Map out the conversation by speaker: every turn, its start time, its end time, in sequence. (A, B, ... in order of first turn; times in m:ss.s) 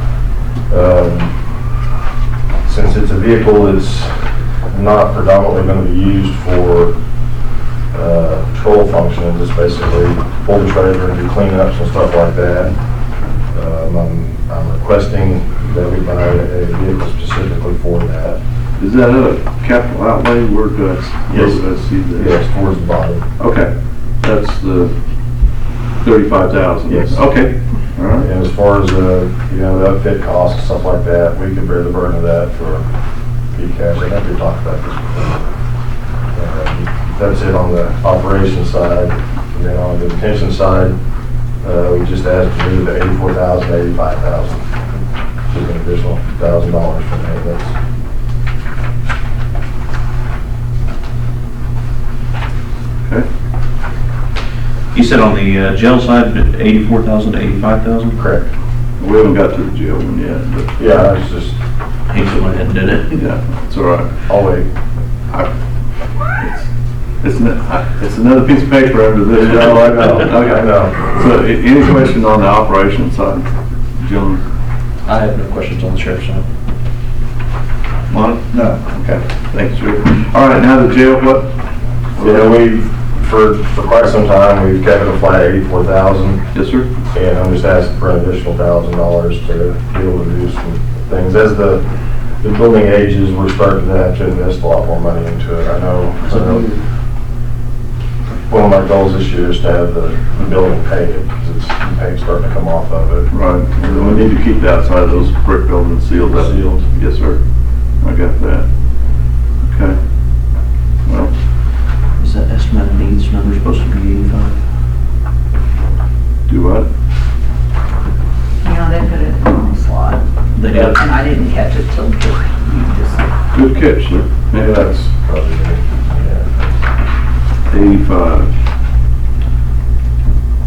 0:00.7-0:01.3 A
0:02.6-0:06.9 A
0:07.9-0:12.7 A
0:13.5-0:18.4 A
0:18.8-0:22.4 B
0:21.3-0:21.6 A
0:22.1-0:23.2 A
0:23.4-0:24.9 B
0:26.0-0:28.3 B
0:26.9-0:27.2 A
0:28.2-0:32.8 A
0:33.5-0:35.5 A
0:36.3-0:40.9 A
0:41.6-0:44.6 A
0:45.5-0:47.7 A
0:54.9-0:58.2 C
0:58.2-0:58.5 A
0:59.0-1:00.8 B
1:00.8-1:01.5 A
1:02.1-1:03.2 C
1:03.1-1:04.1 B
1:04.3-1:04.7 A
1:06.4-1:06.7 B
1:07.2-1:13.5 B
1:09.3-1:11.0 A
1:14.0-1:14.4 B
1:15.0-1:16.4 C
1:18.1-1:18.8 C
1:18.1-1:21.6 B
1:22.1-1:22.6 B
1:22.2-1:26.4 A
1:26.5-1:26.9 B
1:27.1-1:31.8 A
1:32.4-1:36.7 A
1:36.2-1:36.8 C
1:38.5-1:43.3 A
1:43.3-1:47.4 B
1:43.8-1:44.2 A
1:46.4-1:46.8 A
1:48.0-1:48.6 B
1:49.6-1:50.0 B
1:51.0-1:51.3 B
1:52.2-1:54.5 C
1:56.5-1:56.9 B
1:58.6-2:00.2 D
2:00.6-2:01.0 C
2:00.9-2:03.3 D
2:03.5-2:04.9 B
2:04.5-2:06.7 A
2:07.7-2:08.5 B